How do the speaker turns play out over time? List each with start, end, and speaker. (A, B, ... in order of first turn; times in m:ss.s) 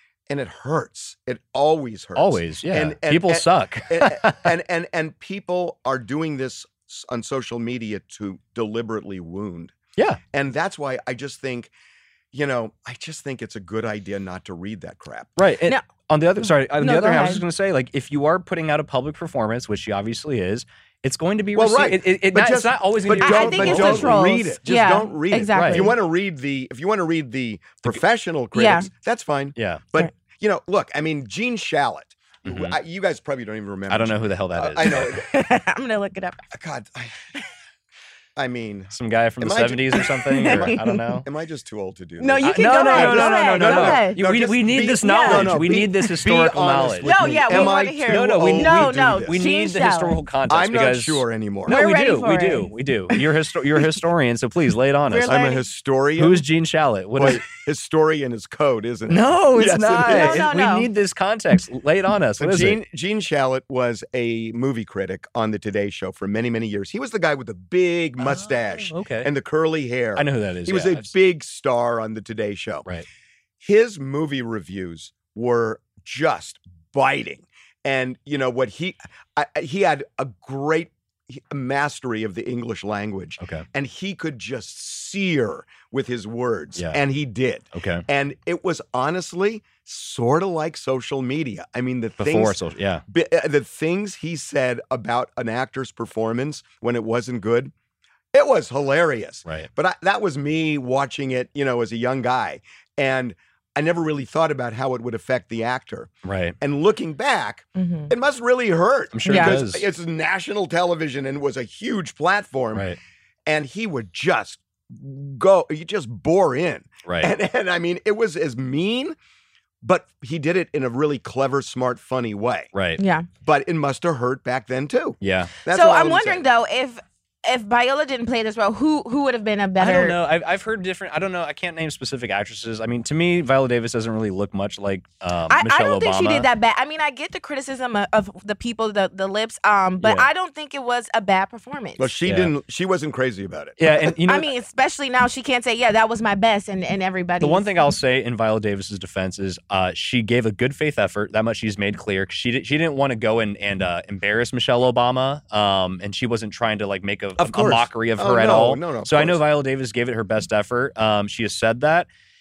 0:00.3-0:09.8 A
0:02.2-0:04.5 B
0:10.3-0:11.7 A
0:12.3-0:15.3 A
0:15.4-0:24.3 B
0:16.8-0:17.4 C
0:21.6-0:35.2 A
0:23.2-0:26.0 C
0:25.5-0:25.9 B
0:28.6-0:28.9 C
0:29.6-0:29.8 B
0:32.4-0:32.8 B
0:33.9-0:35.2 B
0:34.9-0:36.5 C
0:36.5-0:37.2 A
0:38.4-0:49.4 A
0:38.9-0:41.3 B
0:40.3-0:41.0 C
0:42.2-0:44.2 C
0:42.4-0:55.4 B
0:45.0-0:45.5 C
0:47.0-0:50.2 C
0:50.5-0:51.8 A
0:51.7-0:53.2 C
0:55.1-0:55.6 C
0:55.3-0:56.4 A
0:56.2-0:57.4 B
0:57.2-1:00.5 A
0:59.1-1:02.8 B
1:00.0-1:00.9 C
1:02.4-1:12.9 A
1:08.2-1:09.3 B
1:10.2-1:11.1 B
1:13.6-1:37.7 A
1:27.8-1:28.0 B
1:32.2-1:33.0 B
1:38.3-1:52.9 A
1:46.2-1:46.6 B
1:47.8-1:48.1 C
1:49.1-1:49.8 B
1:49.3-1:49.6 C
1:53.5-1:59.2 A
1:57.1-1:57.3 B
1:59.8-2:02.7 A
2:02.7-2:03.0 B
2:03.0-2:03.3 C
2:03.4-2:06.4 A
2:05.2-2:05.5 B
2:05.7-2:10.2 C
2:09.8-2:16.5 B
2:15.5-2:22.1 C
2:20.0-2:20.3 B
2:22.0-2:24.0 A
2:22.3-2:22.5 B
2:23.8-2:24.5 B
2:24.2-2:27.6 C
2:27.4-2:42.1 B
2:37.4-2:39.4 A